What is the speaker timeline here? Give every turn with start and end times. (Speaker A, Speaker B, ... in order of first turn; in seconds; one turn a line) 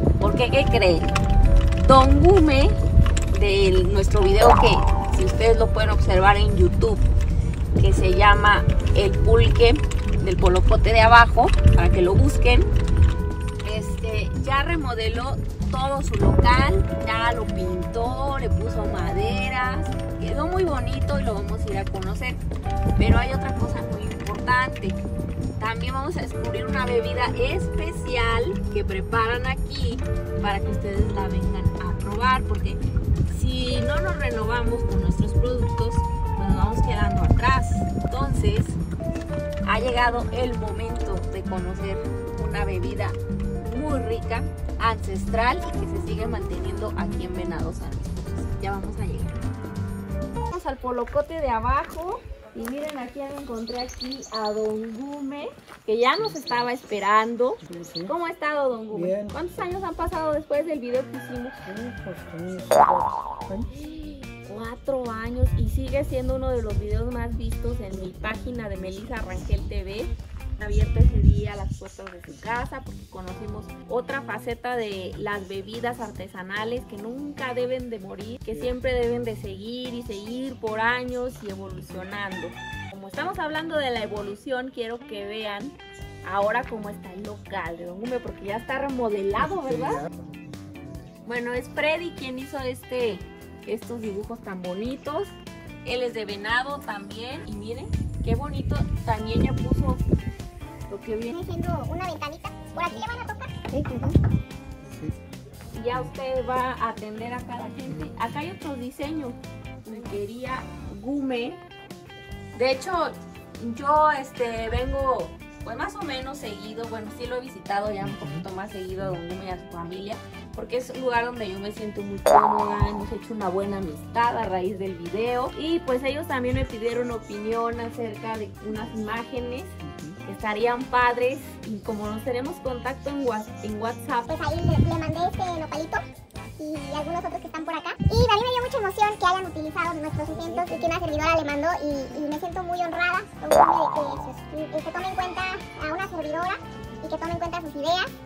Speaker A: 0.2-1.1
Speaker A: 1.8-2.8
Speaker A: 3.3-7.0
Speaker A: 7.7-12.7
Speaker A: 13.6-22.4
Speaker A: 23.0-25.0
Speaker A: 25.6-38.8
Speaker A: 39.6-49.4
Speaker A: 50.5-61.6
Speaker B: 56.2-56.7
Speaker B: 57.6-58.1
Speaker B: 58.9-59.4
Speaker B: 61.6-63.7
Speaker A: 63.8-90.0
Speaker B: 78.5-78.7
Speaker B: 89.4-91.2
Speaker A: 91.2-95.3
Speaker A: 95.8-100.0
Speaker A: 100.9-101.3
Speaker C: 101.3-103.6
Speaker B: 104.8-105.2
Speaker A: 105.7-111.6
Speaker B: 107.9-108.4
Speaker A: 112.5-134.4
Speaker B: 118.0-118.4
Speaker B: 129.8-130.2
Speaker C: 134.3-136.0
Speaker C: 136.6-148.1